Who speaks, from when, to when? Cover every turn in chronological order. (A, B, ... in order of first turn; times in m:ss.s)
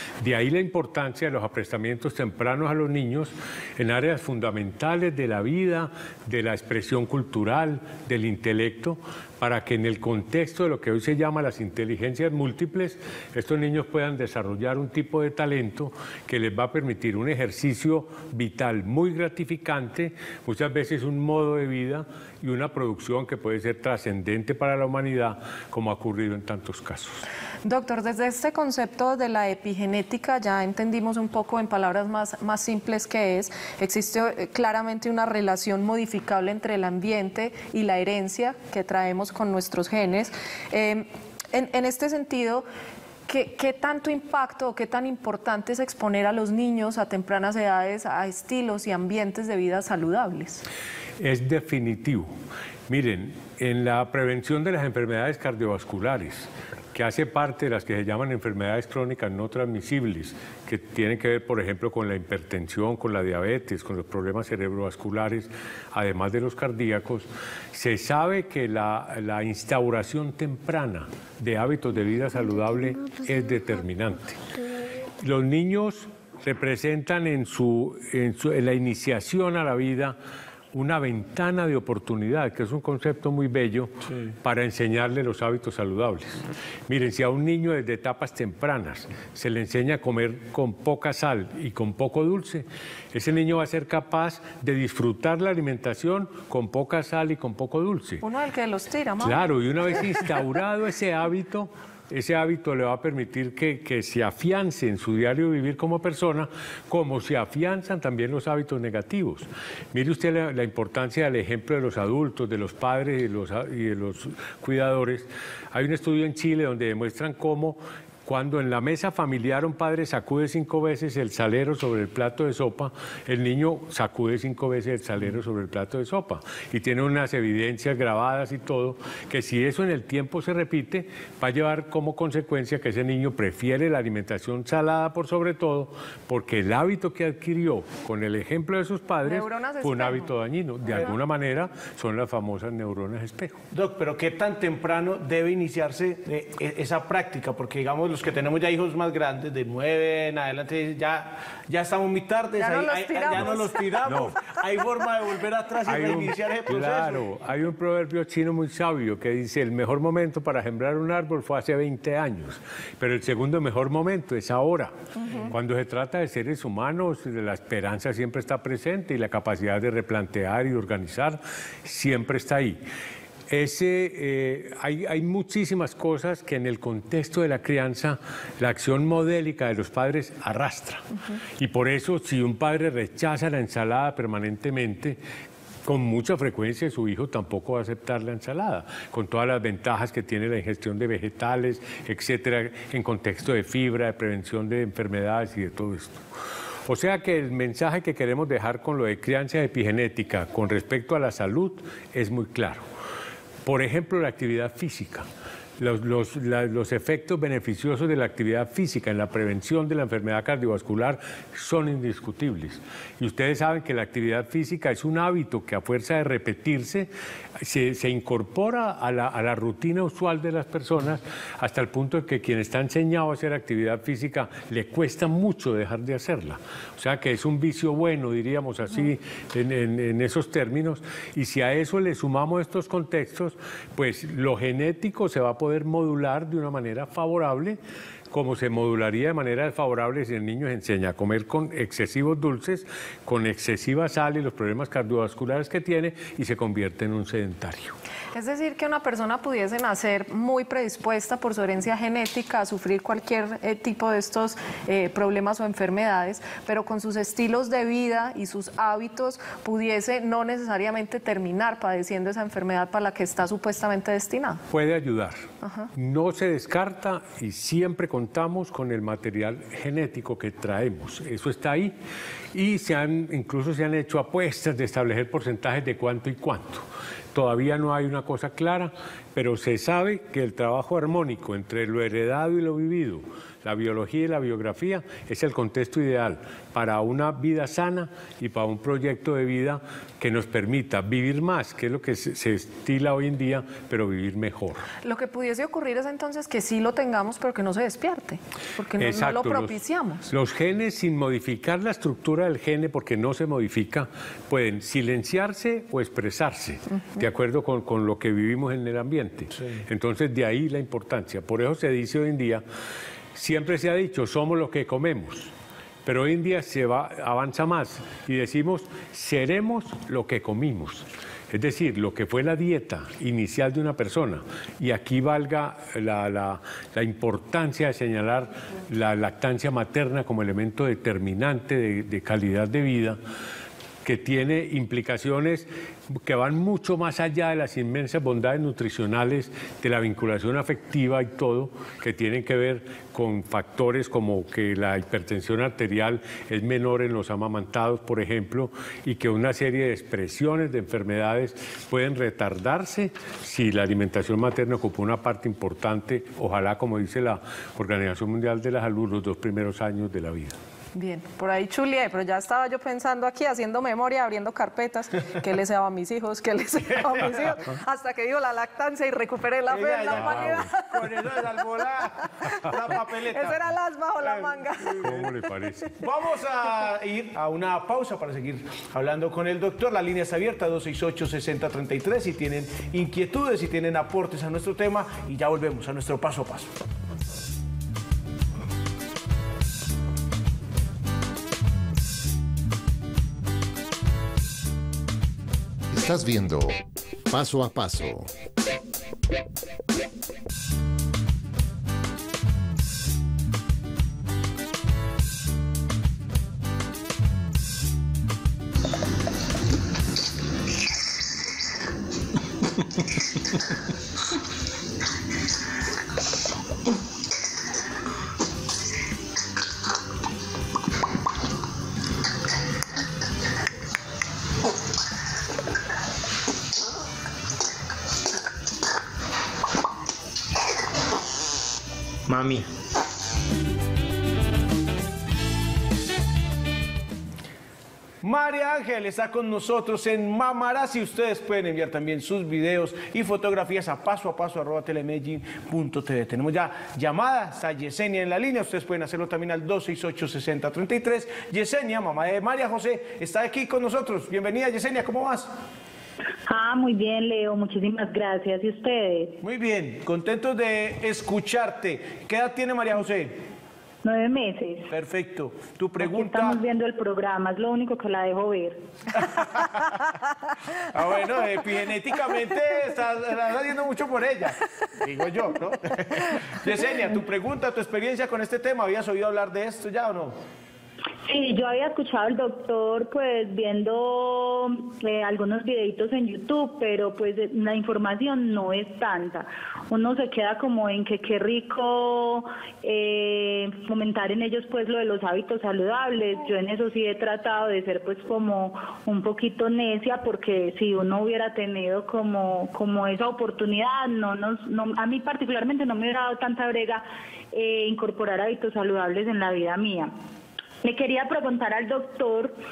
0:00.2-0:27.2 A
0:27.6-0:42.6 B
0:43.3-0:50.6 B
0:51.2-0:52.3 A
0:52.9-1:14.4 A
1:15.2-1:20.2 A
1:20.7-1:38.2 A
1:38.2-1:39.5 B
1:39.2-2:23.6 A
2:19.2-2:20.3 B
2:23.7-2:37.2 C
2:32.6-2:33.9 B
2:34.0-2:34.4 A
2:35.8-2:44.9 A
2:45.2-2:45.5 B
2:45.5-2:52.8 A
2:53.5-3:01.0 A
3:01.6-3:05.2 A
3:05.8-3:16.2 A
3:16.8-3:22.8 A
3:23.6-3:25.3 A
3:25.8-3:57.8 A
3:58.3-4:08.0 A
4:08.3-4:24.6 B
4:24.7-4:32.0 A
4:25.6-4:25.9 B
4:32.5-4:54.8 A
4:55.0-5:00.3 B
4:59.0-5:12.6 A
5:13.3-5:15.5 A
5:16.0-5:33.2 A
5:34.0-6:00.6 A
6:00.9-6:11.2 B
6:09.7-6:13.6 C
6:10.1-6:10.6 A
6:12.4-6:12.7 B
6:13.3-6:15.3 B
6:14.2-6:15.3 C
6:15.0-6:16.0 A
6:15.9-6:26.7 C
6:35.9-6:38.3 D
7:18.2-7:35.5 C
7:36.5-7:39.4 E
7:39.4-7:43.4 C
7:44.0-7:44.9 E
7:44.9-7:46.6 C
7:46.0-7:48.8 E
7:49.1-7:50.0 C
7:50.9-8:00.4 C
8:01.2-8:30.1 E
8:30.8-8:32.6 E